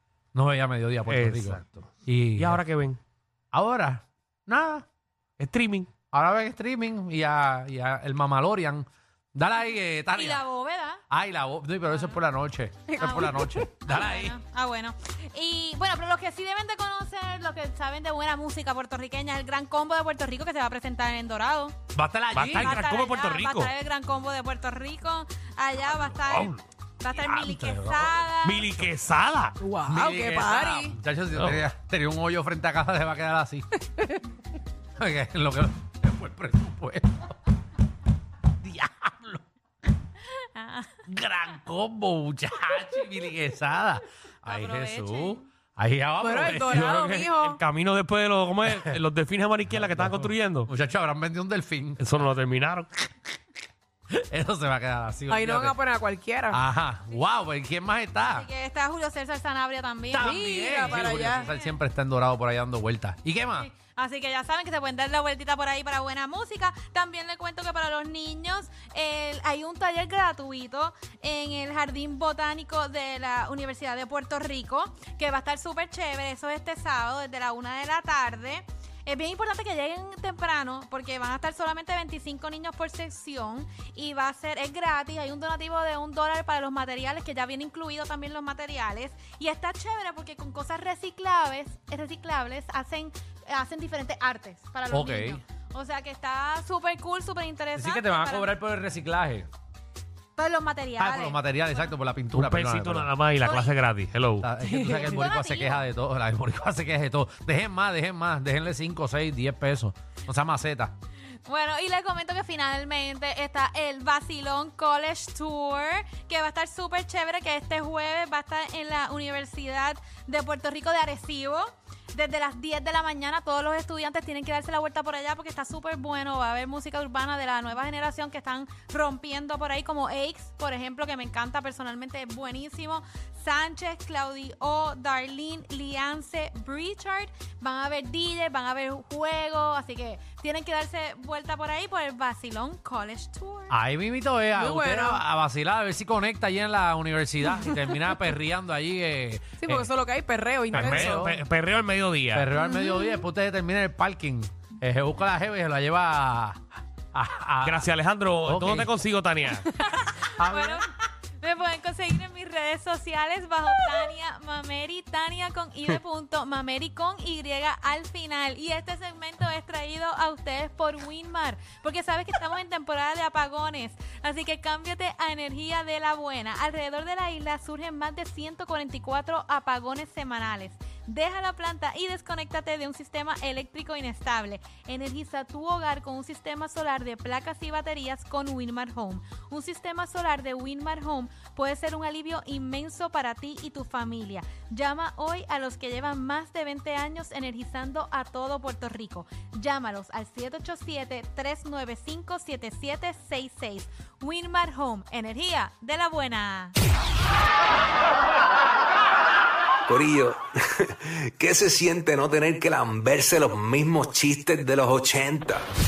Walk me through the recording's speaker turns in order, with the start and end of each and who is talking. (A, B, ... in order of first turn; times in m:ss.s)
0:00.3-0:02.6 A
0:01.1-0:03.0 B
0:03.5-0:04.8 A
0:05.4-0:05.9 B
0:06.1-0:10.4 A
0:10.1-0:11.0 C
0:11.1-0:14.4 A
0:13.0-0:13.6 D
0:13.0-0:21.8 C
0:21.9-0:22.8 A
0:22.3-0:23.7 B
0:22.5-0:28.7 C
0:25.9-0:26.1 A
0:26.2-0:26.6 B
0:27.2-0:27.5 B
0:27.3-0:28.3 A
0:28.4-0:29.6 B
0:29.6-0:30.9 D
0:29.8-0:33.7 A
0:31.3-0:31.6 B
0:35.0-0:37.3 A
0:38.6-0:39.4 A
0:40.4-0:41.0 C
0:41.0-0:47.0 A
0:44.4-0:45.4 C
0:46.2-0:47.6 D
0:46.6-0:50.7 B
0:49.7-0:52.0 A
0:52.0-0:53.1 B
0:54.1-0:55.8 A
0:55.3-0:56.6 D
0:56.5-0:58.5 A
0:58.2-1:01.7 C
1:00.1-1:03.7 A
1:00.2-1:01.4 D
1:03.6-1:38.6 C
1:34.9-1:35.4 A
1:37.7-1:39.5 A
1:40.4-1:41.9 C
1:41.0-1:43.1 A
1:42.3-1:44.5 B
1:43.4-1:43.8 C
1:44.4-1:50.9 A
1:44.9-1:45.8 C
1:51.4-2:23.8 C
2:23.7-2:29.9 A
2:24.5-2:25.2 D
2:29.6-2:31.3 D
2:30.7-2:31.4 A
2:30.7-2:32.5 B
2:32.3-2:37.9 A
2:32.6-2:33.1 C
2:37.6-2:39.7 B
2:38.4-2:38.9 A
2:39.7-3:26.8 C
2:40.2-2:40.8 A
3:29.9-3:35.6 E